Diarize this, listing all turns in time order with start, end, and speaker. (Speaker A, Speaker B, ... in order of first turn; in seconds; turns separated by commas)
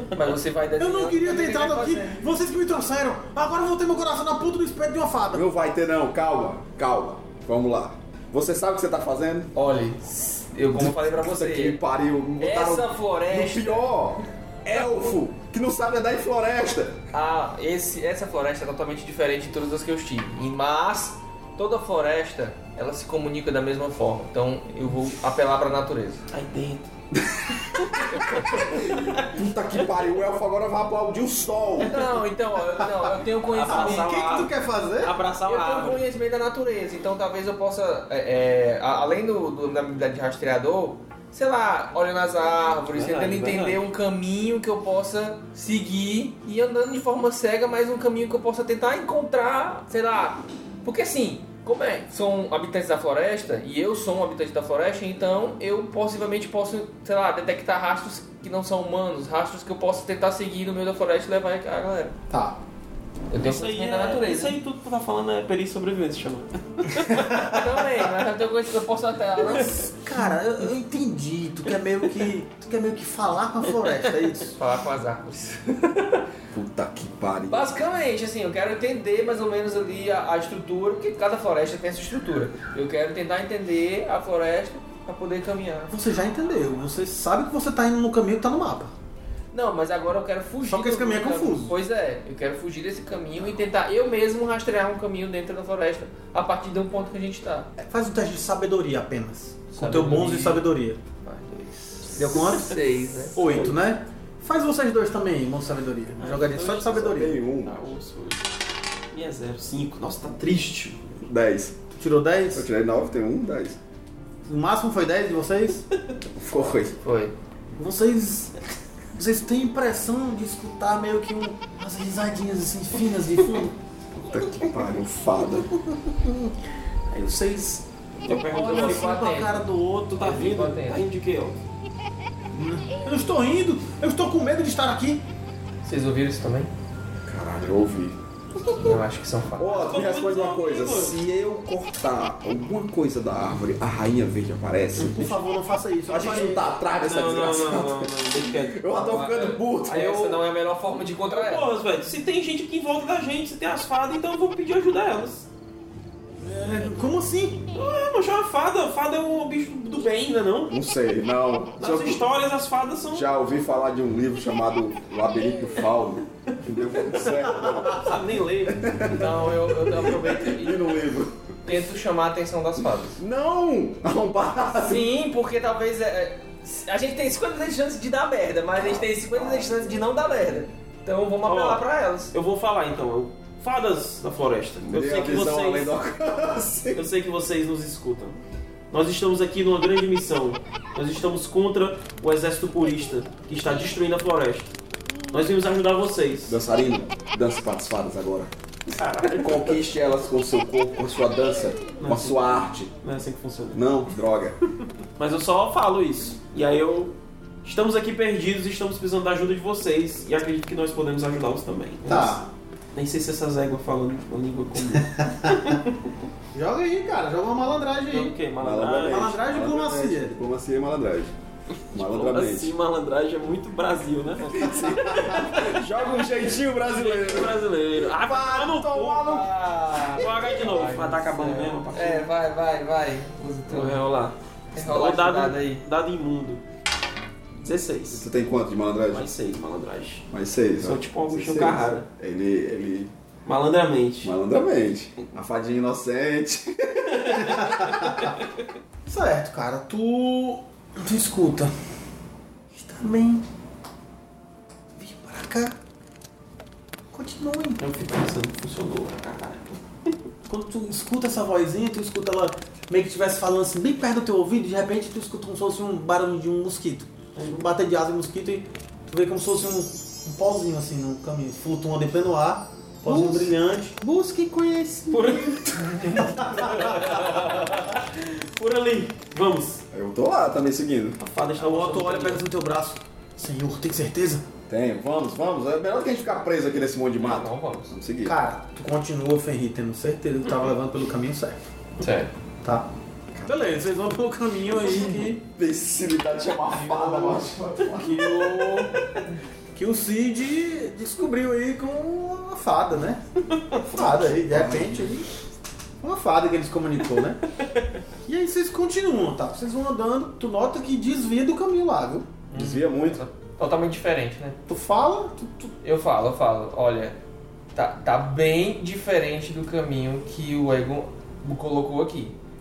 Speaker A: 0.1-2.3, Speaker B: 0.8-5.5, Speaker C: 5.3-9.5, Speaker A: 9.6-11.8, Speaker C: 10.7-17.0, Speaker A: 12.4-13.9, Speaker A: 17.1-26.2, Speaker D: 26.3-26.9, Speaker C: 27.1-32.0, Speaker A: 28.0-28.6, Speaker D: 28.6-29.2, Speaker A: 31.8-34.5, Speaker D: 33.5-34.5, Speaker B: 33.6-35.2, Speaker D: 35.0-36.0, Speaker A: 35.4-62.1, Speaker D: 42.9-43.8, Speaker B: 62.3-62.6, Speaker A: 63.3-64.6, Speaker D: 63.4-67.2, Speaker B: 67.1-67.6, Speaker A: 67.4-69.9, Speaker B: 69.5-74.6, Speaker A: 74.6-76.3, Speaker C: 76.5-77.7, Speaker A: 77.5-85.9, Speaker B: 85.9-88.9, Speaker A: 89.5-97.7, Speaker B: 90.6-91.7, Speaker B: 97.8-101.0, Speaker A: 99.7-100.7, Speaker A: 101.2-103.7, Speaker B: 102.2-102.8, Speaker B: 103.4-107.4, Speaker D: 106.2-108.5, Speaker C: 106.8-107.8, Speaker D: 109.1-111.2, Speaker C: 111.2-111.8, Speaker B: 112.0-112.7, Speaker C: 112.5-113.8, Speaker B: 114.5-115.8, Speaker C: 116.4-117.0, Speaker A: 117.0-117.3, Speaker B: 117.8-118.6, Speaker B: 119.2-123.8, Speaker C: 124.1-125.7, Speaker D: 127.1-129.2, Speaker A: 128.5-129.7, Speaker B: 128.5-130.1, Speaker D: 130.0-131.6, Speaker A: 130.2-131.0, Speaker B: 132.5-135.2, Speaker A: 135.8-136.7, Speaker C: 137.2-138.2, Speaker A: 138.8-139.7, Speaker C: 139.6-145.3, Speaker D: 139.6-141.2, Speaker D: 145.0-145.3, Speaker B: 145.1-146.7, Speaker C: 146.1-150.4, Speaker D: 147.0-149.6, Speaker A: 149.8-151.7, Speaker D: 151.2-155.5, Speaker B: 156.4-157.6, Speaker D: 157.7-160.7, Speaker C: 160.7-162.3, Speaker D: 161.8-163.3, Speaker C: 163.1-168.1, Speaker D: 167.0-169.0, Speaker C: 168.8-171.4, Speaker A: 169.1-171.0, Speaker A: 171.7-173.2, Speaker C: 173.2-175.1, Speaker A: 174.8-182.3, Speaker C: 179.4-179.7, Speaker D: 181.4-185.9, Speaker C: 184.8-187.1, Speaker D: 186.9-188.4, Speaker D: 188.9-194.7, Speaker D: 195.3-196.6, Speaker C: 196.5-198.5, Speaker D: 198.9-199.8, Speaker C: 199.2-202.9, Speaker D: 202.0-204.0, Speaker C: 203.7-204.6, Speaker D: 205.2-212.4, Speaker B: 212.1-212.5, Speaker D: 212.9-216.1, Speaker B: 216.5-218.4, Speaker D: 218.1-219.4, Speaker C: 218.6-221.3, Speaker B: 219.1-220.3, Speaker C: 221.9-222.7, Speaker D: 221.9-226.0, Speaker C: 224.5-229.5, Speaker D: 226.9-229.5, Speaker A: 229.2-234.0, Speaker D: 230.1-232.3, Speaker D: 233.7-236.6, Speaker A: 234.8-235.8, Speaker D: 237.6-238.3, Speaker C: 238.1-239.3, Speaker D: 239.1-240.3, Speaker C: 240.3-243.1, Speaker D: 240.8-242.1, Speaker D: 243.4-244.3, Speaker C: 244.2-248.2, Speaker D: 247.1-248.1, Speaker B: 247.4-248.3, Speaker B: 249.1-251.7, Speaker B: 252.7-253.4, Speaker B: 255.0-255.8, Speaker B: 257.1-257.8, Speaker D: 257.8-259.8, Speaker B: 260.5-275.6, Speaker D: 267.4-267.7, Speaker D: 275.1-279.8, Speaker B: 276.1-277.2, Speaker A: 277.0-277.7, Speaker C: 279.9-281.2, Speaker D: 281.2-282.5, Speaker B: 281.6-284.5, Speaker C: 284.7-288.4, Speaker A: 287.2-287.9, Speaker B: 288.2-291.7, Speaker A: 292.0-292.3, Speaker B: 292.6-292.9, Speaker C: 293.3-293.7, Speaker B: 293.5-295.4, Speaker C: 294.7-298.7, Speaker B: 296.9-299.1, Speaker B: 299.7-303.2, Speaker B: 303.8-305.3, Speaker C: 303.8-305.2, Speaker B: 306.0-307.4, Speaker B: 308.3-312.3, Speaker A: 312.5-314.6, Speaker C: 312.6-313.2, Speaker B: 314.7-315.7, Speaker A: 315.8-317.2, Speaker A: 317.8-322.4